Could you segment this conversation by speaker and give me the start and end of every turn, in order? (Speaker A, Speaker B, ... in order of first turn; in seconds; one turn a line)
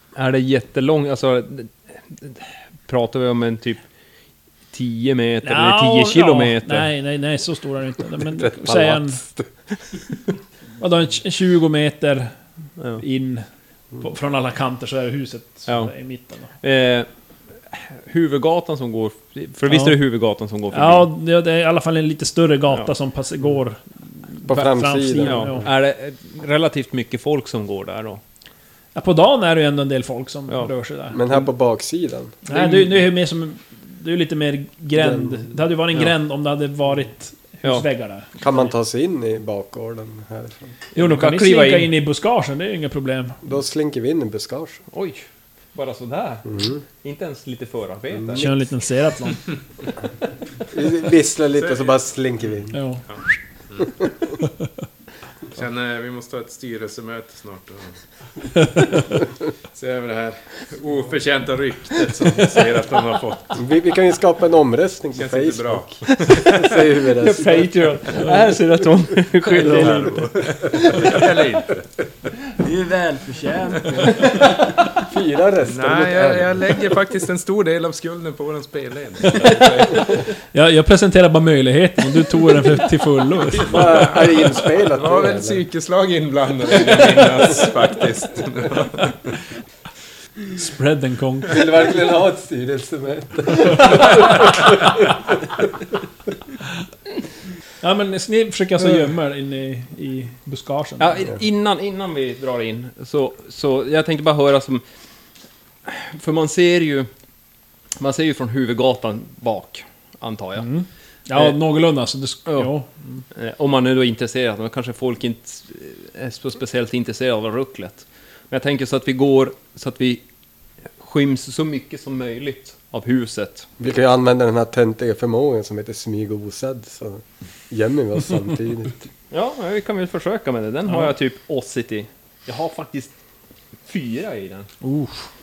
Speaker A: 0.1-3.8
Speaker A: 4.7-6.9
Speaker B: 5.4-9.2
Speaker C: 8.2-9.5
Speaker B: 10.8-12.3
Speaker B: 13.0-13.4
Speaker B: 14.0-16.5
Speaker A: 15.7-15.9
Speaker A: 16.6-21.1
Speaker B: 19.7-20.0
Speaker B: 20.7-25.7
Speaker C: 24.4-25.7
Speaker A: 25.2-28.2
Speaker B: 28.9-31.2
Speaker C: 31.1-32.4
Speaker B: 32.5-38.4
Speaker A: 32.5-33.0
Speaker C: 34.9-35.5
Speaker C: 38.4-40.7
Speaker A: 40.9-41.9
Speaker B: 41.0-43.4
Speaker C: 43.4-44.8
Speaker A: 44.9-48.5
Speaker C: 46.5-46.8
Speaker B: 48.3-49.5
Speaker C: 50.7-52.8
Speaker D: 51.6-52.0
Speaker B: 52.7-53.0
Speaker D: 55.5-58.0
Speaker D: 59.7-63.6
Speaker C: 63.5-67.8
Speaker D: 65.2-66.6
Speaker A: 66.0-70.2
Speaker B: 68.1-68.4
Speaker D: 69.6-71.9
Speaker E: 72.6-74.7
Speaker C: 75.0-76.8
Speaker D: 75.7-80.2
Speaker B: 79.2-84.0
Speaker C: 83.6-85.6
Speaker D: 83.7-89.3
Speaker B: 90.5-91.6
Speaker C: 91.5-95.3
Speaker B: 97.8-101.2
Speaker A: 101.0-104.8
Speaker A: 105.8-107.1
Speaker A: 108.0-110.7
Speaker B: 110.6-113.2
Speaker A: 112.5-112.7
Speaker A: 113.3-120.2
Speaker A: 121.0-123.7
Speaker C: 123.8-129.1
Speaker A: 129.3-133.1
Speaker A: 133.8-134.7
Speaker B: 134.8-135.3